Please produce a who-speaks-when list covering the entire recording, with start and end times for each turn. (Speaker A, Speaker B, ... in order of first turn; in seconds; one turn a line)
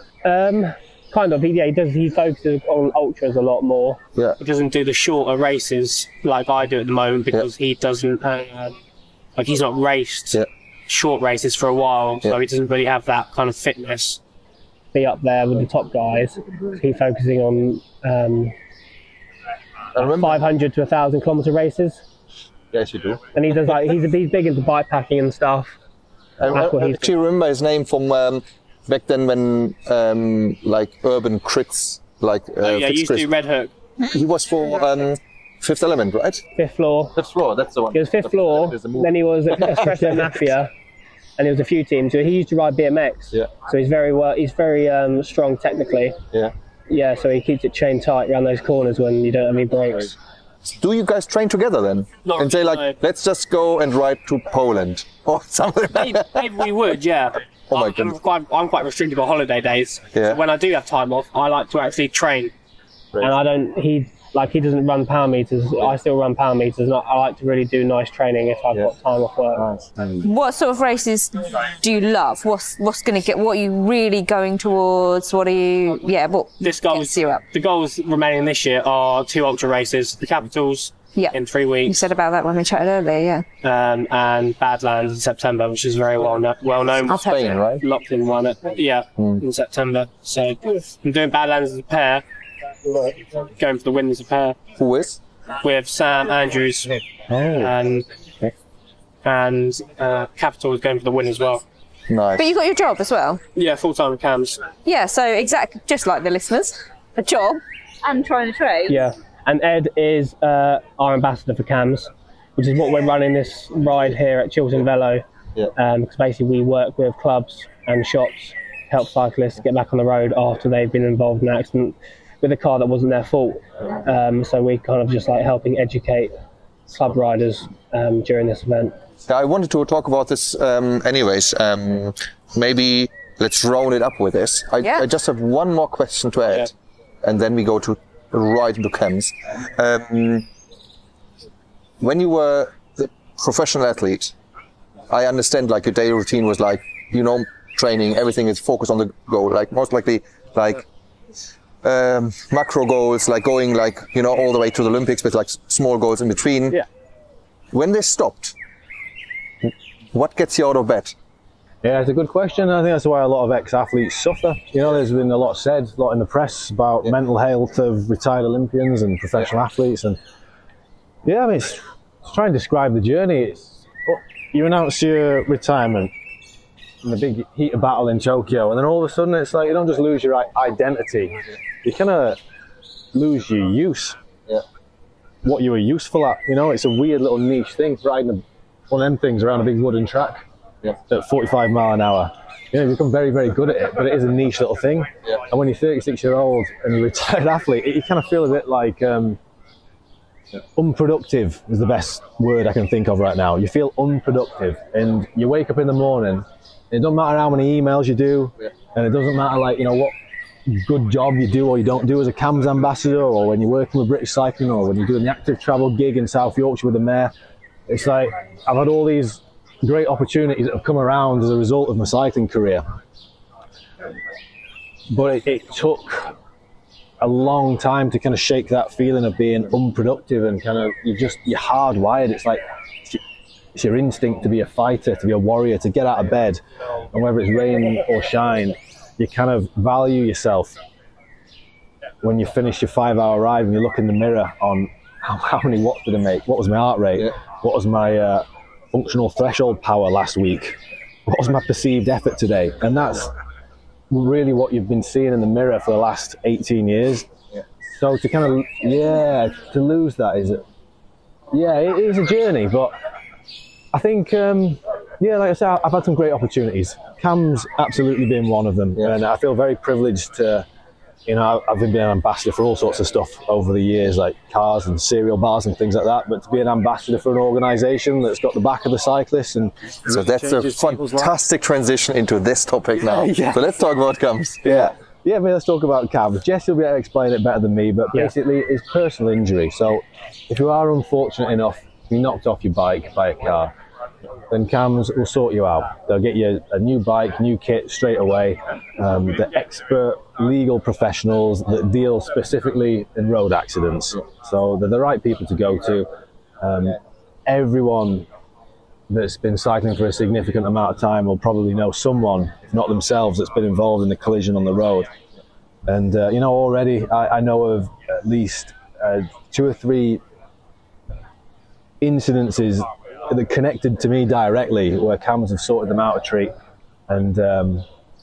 Speaker A: 0.2-8.8
Speaker A: 9.4-14.2
Speaker A: 14.9-18.6
Speaker B: 20.0-20.4
Speaker A: 20.0-22.0
Speaker B: 22.7-23.2
Speaker A: 23.4-25.8
Speaker B: 26.4-33.3
Speaker A: 26.5-27.1
Speaker A: 32.6-33.7
Speaker B: 34.0-36.4
Speaker A: 36.6-37.1
Speaker B: 37.1-40.3
Speaker A: 37.9-40.7
Speaker A: 41.4-46.2
Speaker A: 46.9-50.1
Speaker B: 50.7-56.5
Speaker A: 52.2-53.0
Speaker A: 55.9-62.5
Speaker B: 57.7-58.2
Speaker B: 60.1-60.4
Speaker A: 63.2-69.7
Speaker B: 69.6-70.3
Speaker C: 70.2-77.4
Speaker A: 76.6-82.0
Speaker C: 81.9-83.5
Speaker A: 83.6-92.2
Speaker B: 87.1-87.8
Speaker C: 87.1-87.5
Speaker B: 89.2-89.4
Speaker A: 93.4-94.6
Speaker B: 94.8-95.2
Speaker A: 95.6-97.0
Speaker B: 97.3-97.7
Speaker A: 97.6-98.1
Speaker A: 99.2-101.6
Speaker B: 102.1-102.5
Speaker C: 102.4-103.4
Speaker A: 103.5-104.6
Speaker C: 104.8-109.0
Speaker A: 108.9-115.2
Speaker A: 115.8-126.3
Speaker A: 126.9-128.9
Speaker B: 129.3-136.7
Speaker B: 137.2-140.5
Speaker B: 142.0-144.3
Speaker B: 145.1-150.8
Speaker B: 151.8-156.8
Speaker B: 157.7-158.6
Speaker B: 159.6-161.2
Speaker D: 161.8-170.2
Speaker D: 171.2-176.1
Speaker D: 177.0-182.4
Speaker D: 183.1-184.2
Speaker D: 185.4-190.4
Speaker D: 191.1-199.4
Speaker D: 200.8-210.1
Speaker D: 210.7-217.3
Speaker D: 217.9-222.8
Speaker D: 225.1-226.3
Speaker D: 227.2-233.2
Speaker D: 233.8-236.6
Speaker D: 237.1-240.8
Speaker D: 242.2-250.8
Speaker D: 251.3-253.3
Speaker D: 254.1-257.3
Speaker D: 257.9-260.6
Speaker D: 261.5-262.9
Speaker D: 263.9-270.7
Speaker D: 271.3-281.3
Speaker B: 280.1-284.9
Speaker D: 283.0-283.6
Speaker D: 284.6-293.7
Speaker D: 294.5-306.1
Speaker D: 306.6-308.3
Speaker D: 309.1-315.1
Speaker D: 315.9-320.2
Speaker D: 322.0-326.5
Speaker D: 327.1-327.9